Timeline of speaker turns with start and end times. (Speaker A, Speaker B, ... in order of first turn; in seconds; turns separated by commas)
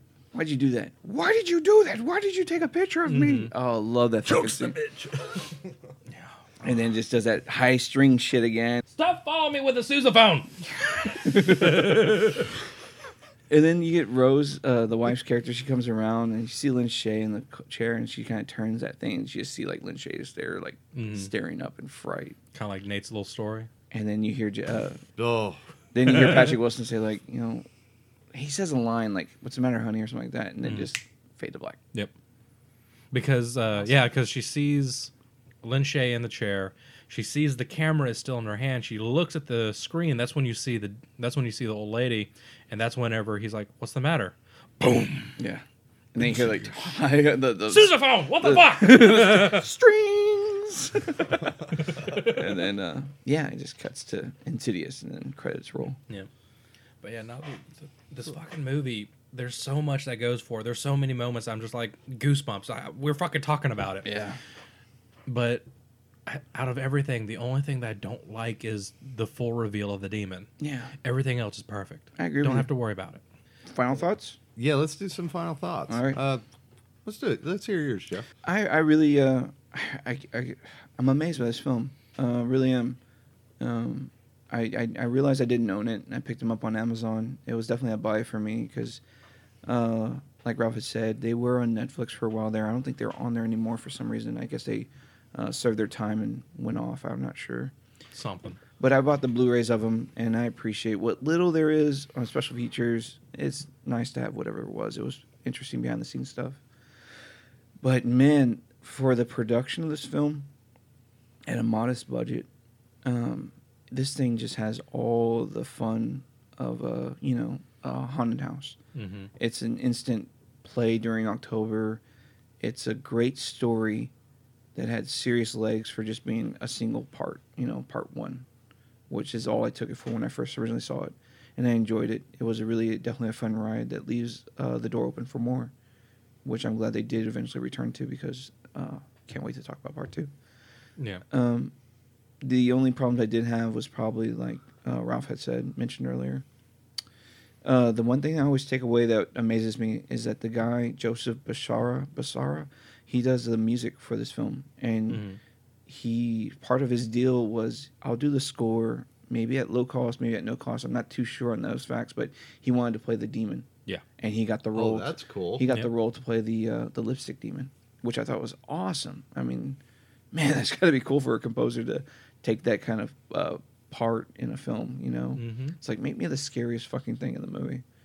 Speaker A: 0.3-4.8, Speaker B: 3.0-3.5, Speaker C: 4.2-5.7, Speaker A: 6.6-8.8, Speaker B: 8.9-12.4, Speaker A: 11.2-12.2, Speaker A: 13.5-22.4, Speaker B: 20.9-21.3, Speaker B: 22.5-23.7, Speaker A: 23.9-25.0, Speaker C: 25.2-25.6, Speaker A: 25.9-27.6, Speaker B: 26.2-26.5, Speaker A: 28.3-31.8, Speaker B: 33.1-35.1, Speaker B: 35.6-45.3, Speaker A: 45.4-45.6, Speaker A: 46.1-56.0, Speaker B: 46.2-46.7, Speaker B: 47.7-49.7, Speaker B: 51.9-52.5, Speaker B: 57.0-64.1, Speaker A: 64.0-64.4, Speaker B: 65.3-65.6, Speaker B: 66.2-70.5, Speaker A: 70.6-70.9, Speaker B: 71.0-73.2, Speaker A: 72.2-72.7, Speaker A: 73.7-74.4, Speaker C: 74.5-76.4, Speaker A: 75.9-76.2, Speaker C: 77.0-78.3, Speaker A: 78.4-83.0, Speaker A: 83.6-89.0, Speaker A: 89.6-97.7, Speaker B: 98.1-98.6, Speaker A: 98.8-106.6, Speaker A: 107.8-110.5, Speaker A: 111.5-112.5, Speaker A: 113.0-118.8, Speaker B: 118.9-119.3, Speaker A: 119.4-122.0, Speaker A: 122.6-124.1, Speaker A: 124.7-128.4, Speaker A: 129.1-135.7, Speaker A: 136.4-140.3, Speaker B: 141.0-141.2, Speaker A: 141.3-141.7, Speaker A: 142.4-146.4, Speaker A: 147.6-155.2, Speaker B: 155.1-155.4, Speaker A: 155.9-163.7, Speaker A: 164.2-169.8, Speaker C: 164.7-165.7, Speaker A: 170.3-177.8, Speaker B: 175.3-175.8